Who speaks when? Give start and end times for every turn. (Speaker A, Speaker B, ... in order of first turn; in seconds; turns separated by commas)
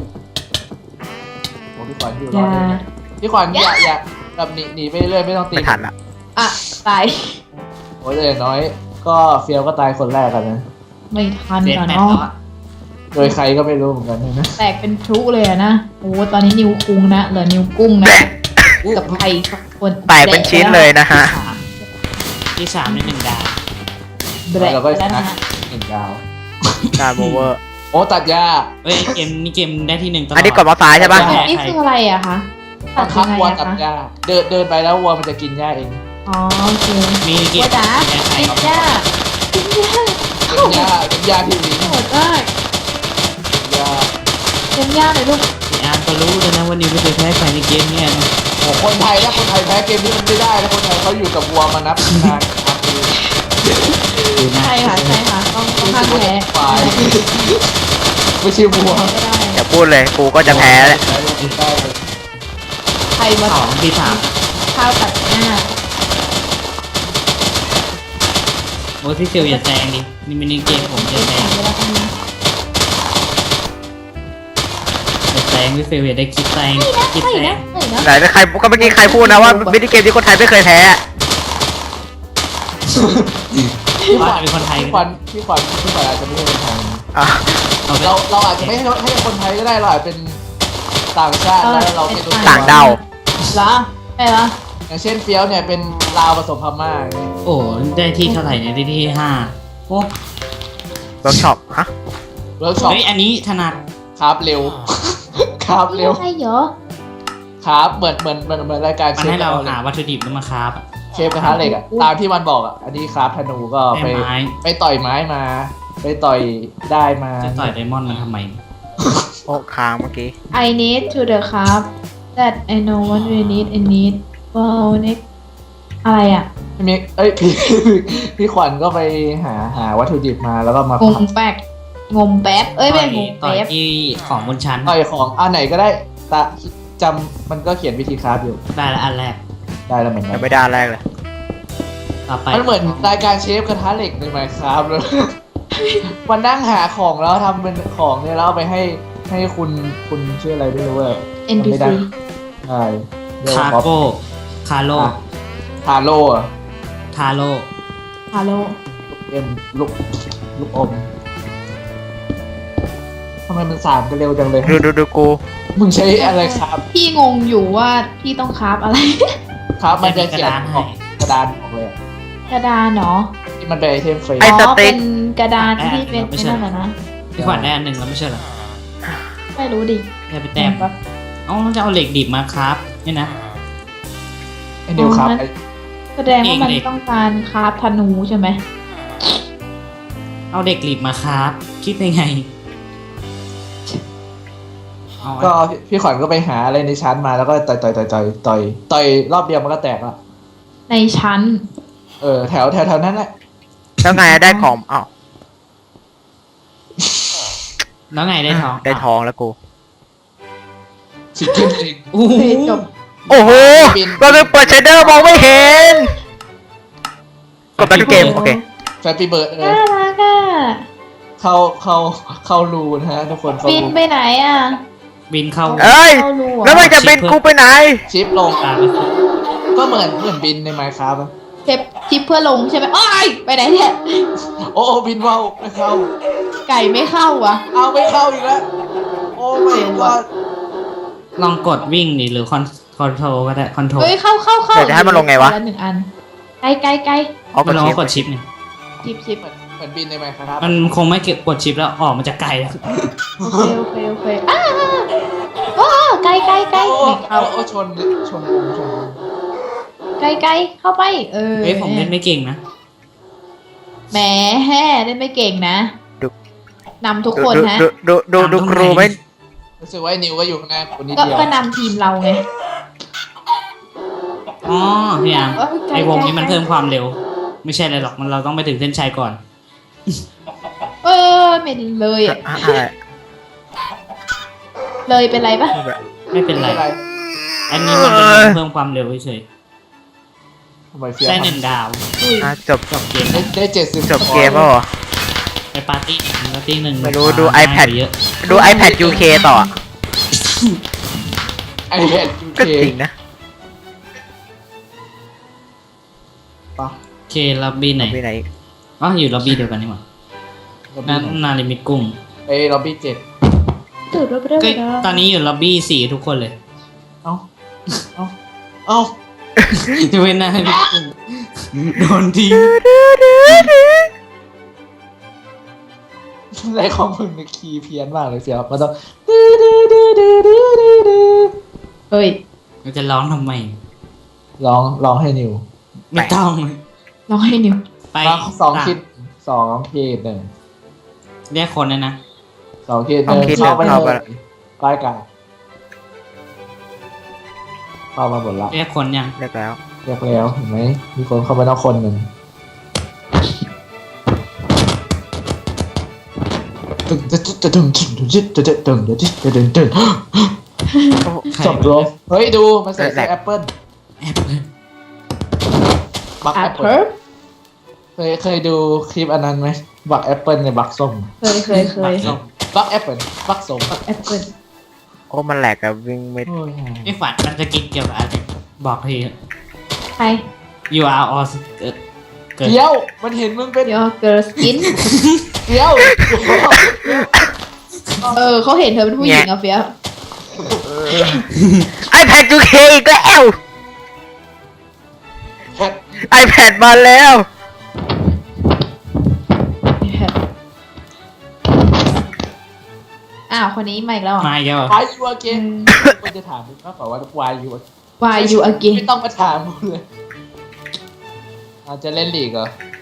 Speaker A: 1.8-5.8, Speaker B: 2.3-2.8, Speaker B: 3.5-3.9, Speaker C: 5.5-5.9, Speaker B: 6.4-7.4, Speaker A: 8.0-10.6, Speaker B: 11.1-12.2, Speaker D: 11.6-12.3, Speaker A: 13.1-14.6, Speaker B: 14.6-18.3, Speaker C: 18.1-18.7, Speaker D: 18.8-19.2, Speaker B: 18.9-20.9, Speaker C: 20.1-21.3, Speaker D: 21.1-21.6, Speaker D: 22.6-23.6, Speaker B: 22.9-23.1, Speaker B: 24.5-25.4, Speaker A: 24.6-26.7, Speaker C: 27.0-27.6, Speaker D: 27.0-27.5, Speaker A: 27.9-29.2, Speaker D: 28.8-31.8, Speaker C: 30.4-31.3, Speaker A: 30.9-31.4, Speaker B: 31.2-33.8, Speaker A: 33.0-36.0, Speaker B: 36.3-40.9, Speaker D: 37.2-38.7, Speaker A: 38.4-39.0, Speaker A: 40.5-42.0, Speaker B: 41.8-42.5, Speaker A: 43.6-44.1, Speaker B: 44.7-45.5, Speaker D: 45.7-48.3, Speaker A: 48.6-53.1, Speaker B: 49.2-49.4, Speaker A: 53.6-53.9, Speaker B: 53.9-57.1, Speaker D: 54.4-55.2, Speaker A: 55.8-57.6, Speaker A: 58.4-59.1, Speaker B: 58.7-59.6, Speaker C: 59.5-61.0, Speaker A: 60.4-62.1, Speaker D: 60.4-61.6, Speaker B: 63.2-65.6, Speaker D: 63.5-64.3, Speaker D: 69.0-71.5, Speaker B: 69.4-69.7, Speaker B: 70.7-72.1, Speaker D: 75.3-77.6, Speaker B: 76.7-78.1, Speaker C: 78.0-81.0, Speaker B: 78.7-79.8, Speaker A: 82.9-83.3, Speaker D: 83.5-85.1, Speaker A: 84.1-87.0, Speaker C: 87.2-87.4, Speaker D: 87.9-88.8, Speaker A: 88.0-90.4, Speaker A: 91.1-92.8, Speaker B: 91.6-93.0, Speaker C: 92.4-93.0, Speaker B: 93.5-94.5, Speaker A: 94.9-97.3, Speaker D: 97.5-100.1, Speaker B: 98.2-98.6, Speaker C: 101.2-101.9, Speaker A: 102.6-103.0, Speaker D: 102.8-103.8, Speaker A: 104.2-106.2, Speaker B: 105.9-106.7, Speaker A: 107.6-109.8, Speaker D: 109.2-110.8, Speaker A: 111.2-117.7, Speaker B: 111.4-112.1, Speaker D: 113.9-114.5, Speaker D: 117.4-118.6, Speaker A: 119.0-119.3, Speaker C: 119.5-120.3, Speaker B: 120.5-125.2, Speaker B: 126.0-126.5, Speaker A: 126.8-131.2, Speaker B: 131.0-133.7, Speaker D: 132.9-135.0, Speaker A: 134.9-138.6, Speaker D: 138.7-139.4, Speaker A: 139.9-140.5, Speaker C: 140.3-141.0, Speaker D: 142.3-143.2, Speaker A: 142.5-145.3, Speaker B: 145.7-146.1, Speaker A: 146.3-152.0, Speaker B: 151.5-152.1, Speaker A: 152.7-153.9, Speaker D: 153.5-155.2, Speaker A: 155.8-156.5, Speaker D: 157.1-157.7, Speaker B: 158.3-158.8, Speaker A: 159.1-160.0, Speaker A: 160.6-161.1, Speaker A: 163.5-164.8, Speaker C: 164.6-165.4, Speaker A: 165.8-166.8, Speaker B: 166.2-169.3, Speaker A: 169.8-171.9, Speaker D: 170.0-171.0, Speaker B: 172.5-173.3, Speaker A: 173.6-174.5, Speaker C: 174.4-175.0, Speaker B: 174.4-176.9, Speaker D: 175.6-176.6, Speaker A: 177.4-177.7, Speaker D: 177.4-178.4, Speaker B: 179.6-180.1, Speaker D: 180.3-180.9, Speaker B: 180.6-180.9, Speaker D: 181.5-183.3, Speaker A: 184.9-185.5, Speaker B: 185.0-185.4, Speaker B: 186.2-188.6, Speaker D: 186.4-186.8, Speaker D: 190.5-192.5, Speaker D: 195.2-195.5, Speaker A: 195.4-200.2, Speaker B: 200.9-201.6, Speaker A: 202.2-203.3, Speaker C: 204.0-205.1, Speaker B: 204.2-204.7, Speaker A: 207.0-207.3, Speaker D: 208.1-209.1, Speaker C: 208.5-209.6, Speaker A: 211.3-212.1, Speaker B: 211.5-211.7, Speaker D: 212.1-212.9, Speaker B: 212.3-212.8, Speaker A: 213.3-215.3, Speaker C: 213.3-216.1, Speaker D: 217.8-218.4, Speaker C: 217.8-218.6, Speaker B: 218.0-218.6, Speaker A: 219.0-219.8, Speaker B: 219.6-220.8, Speaker A: 221.4-223.9, Speaker B: 223.6-224.8, Speaker D: 225.3-225.9, Speaker B: 225.7-226.8, Speaker C: 225.8-228.0, Speaker D: 226.7-227.4, Speaker A: 228.1-228.6, Speaker D: 228.6-229.1, Speaker A: 229.8-231.3, Speaker B: 231.7-234.3, Speaker A: 234.6-236.1, Speaker B: 236.7-237.6, Speaker A: 237.7-238.7, Speaker A: 239.3-240.3, Speaker B: 239.6-240.2, Speaker D: 241.4-244.1, Speaker B: 244.0-246.1, Speaker C: 244.8-245.6, Speaker B: 246.6-247.3, Speaker C: 247.5-248.3, Speaker D: 247.6-248.4, Speaker B: 249.0-249.4, Speaker A: 249.4-250.8, Speaker D: 250.6-253.1, Speaker A: 253.4-253.7, Speaker B: 253.4-255.1, Speaker B: 255.8-257.5, Speaker A: 256.7-259.2, Speaker B: 260.2-262.1, Speaker D: 261.6-262.6, Speaker B: 264.1-265.9, Speaker B: 267.0-267.9, Speaker C: 267.4-269.1, Speaker D: 268.4-269.2, Speaker A: 269.8-271.5, Speaker B: 271.1-272.4, Speaker D: 274.6-279.4, Speaker B: 275.6-276.6, Speaker B: 281.0-282.6, Speaker C: 282.3-282.9, Speaker B: 285.1-285.8, Speaker D: 286.3-286.9, Speaker A: 286.5-287.0, Speaker D: 287.7-289.4, Speaker C: 288.0-288.6, Speaker A: 290.9-291.6, Speaker D: 291.3-292.0, Speaker B: 292.2-292.5, Speaker C: 292.4-292.9, Speaker D: 292.9-293.5, Speaker A: 293.3-294.6, Speaker C: 294.1-294.9, Speaker B: 294.3-294.7, Speaker D: 295.7-298.1, Speaker C: 297.0-299.7, Speaker B: 298.5-299.7, Speaker A: 301.9-302.9, Speaker C: 302.6-303.1, Speaker D: 307.3-308.2, Speaker C: 308.0-308.4, Speaker D: 309.0-310.0, Speaker A: 310.9-311.4, Speaker D: 311.1-312.1, Speaker A: 312.5-313.2, Speaker B: 314.1-315.2, Speaker D: 314.6-316.5, Speaker A: 318.9-319.1, Speaker D: 319.7-322.8, Speaker C: 322.5-324.1, Speaker A: 326.6-331.5, Speaker B: 332.1-332.4, Speaker D: 332.8-333.8, Speaker A: 334.6-335.6, Speaker D: 336.1-336.8, Speaker B: 337.3-337.8, Speaker D: 338.1-339.0, Speaker A: 338.2-340.5, Speaker D: 341.5-342.2, Speaker A: 342.9-345.2, Speaker C: 343.3-344.2, Speaker B: 343.3-344.1, Speaker A: 348.1-348.7, Speaker D: 348.7-349.3, Speaker C: 349.4-349.8, Speaker A: 350.1-352.3, Speaker A: 357.1-360.5, Speaker B: 360.9-361.3, Speaker D: 361.5-362.1, Speaker A: 361.6-363.7, Speaker C: 363.0-363.3, Speaker D: 364.2-364.6, Speaker A: 366.4-366.9, Speaker B: 366.6-367.1, Speaker A: 368.2-371.3, Speaker B: 371.4-372.3, Speaker D: 371.7-372.4, Speaker A: 372.2-373.9, Speaker B: 373.9-374.5, Speaker C: 375.3-376.5, Speaker A: 376.5-377.1, Speaker D: 377.1-379.3, Speaker B: 380.2-380.4, Speaker D: 380.9-381.9, Speaker A: 382.6-384.0, Speaker B: 383.9-384.9, Speaker D: 384.7-385.4, Speaker A: 385.7-387.3, Speaker A: 388.2-388.4, Speaker B: 388.4-389.9, Speaker C: 389.2-389.5, Speaker A: 390.6-391.4, Speaker C: 390.9-391.4, Speaker C: 392.1-393.6, Speaker A: 395.8-396.2, Speaker C: 396.2-397.4, Speaker B: 400.0-400.4, Speaker B: 403.5-404.5, Speaker D: 404.4-405.0, Speaker A: 404.9-407.8, Speaker B: 405.5-405.9, Speaker B: 408.2-409.0, Speaker A: 408.4-410.1, Speaker A: 411.9-412.7